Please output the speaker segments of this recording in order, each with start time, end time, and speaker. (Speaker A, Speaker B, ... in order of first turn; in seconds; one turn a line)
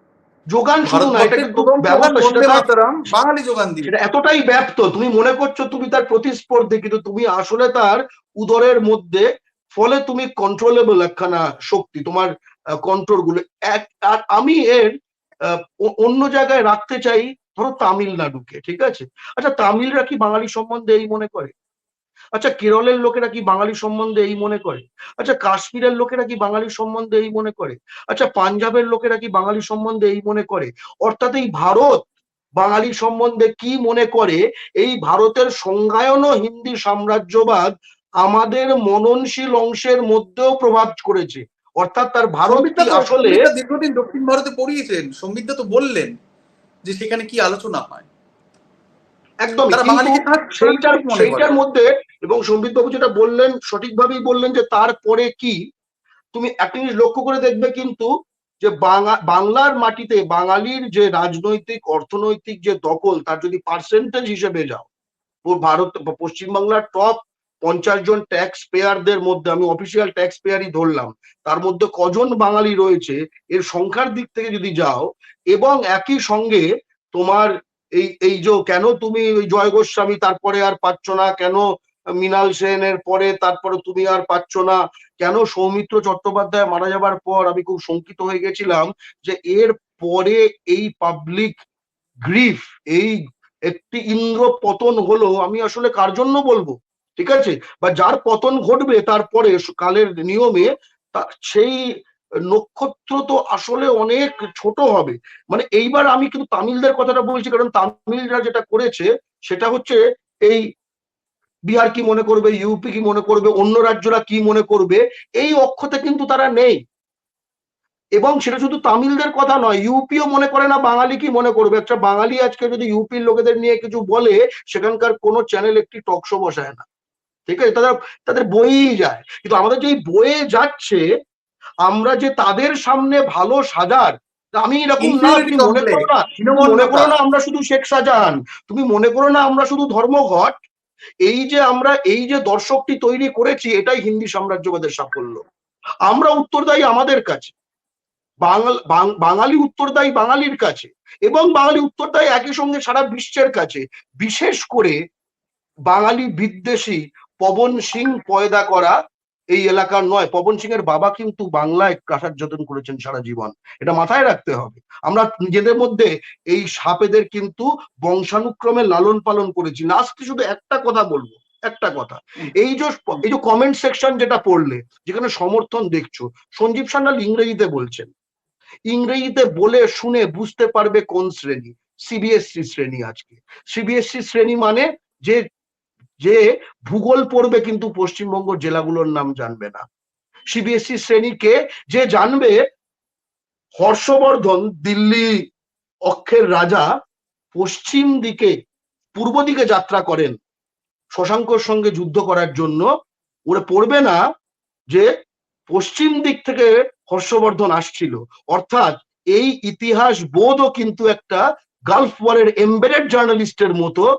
Speaker A: 0.5-2.6
Speaker B: 0.8-3.9
Speaker A: 3.9-12.3
Speaker A: 12.8-14.9
Speaker A: 15.4-21.5
Speaker A: 22.3-32.1
Speaker A: 32.6-37.7
Speaker A: 38.2-43.4
Speaker B: 42.5-46.1
Speaker B: 46.9-48.1
Speaker A: 49.4-55.6
Speaker B: 49.7-51.6
Speaker A: 56.3-58.1
Speaker A: 58.6-64.9
Speaker A: 65.5-81.6
Speaker A: 82.2-91.5
Speaker A: 92.2-101.8
Speaker A: 102.5-110.6
Speaker A: 111.7-116.8
Speaker A: 118.2-126.8
Speaker A: 127.5-131.0
Speaker A: 131.8-140.6
Speaker B: 135.0-137.1
Speaker A: 141.2-145.4
Speaker A: 146.1-147.5
Speaker A: 148.4-155.0
Speaker A: 155.9-158.9
Speaker A: 159.5-178.1
Speaker A: 178.9-185.4
Speaker A: 186.2-189.8
Speaker A: 190.5-192.6
Speaker A: 193.8-195.3
Speaker A: 196.1-196.9
Speaker A: 197.5-198.5
Speaker A: 199.1-200.4
Speaker A: 201.2-202.8
Speaker A: 203.5-204.2
Speaker A: 205.7-214.0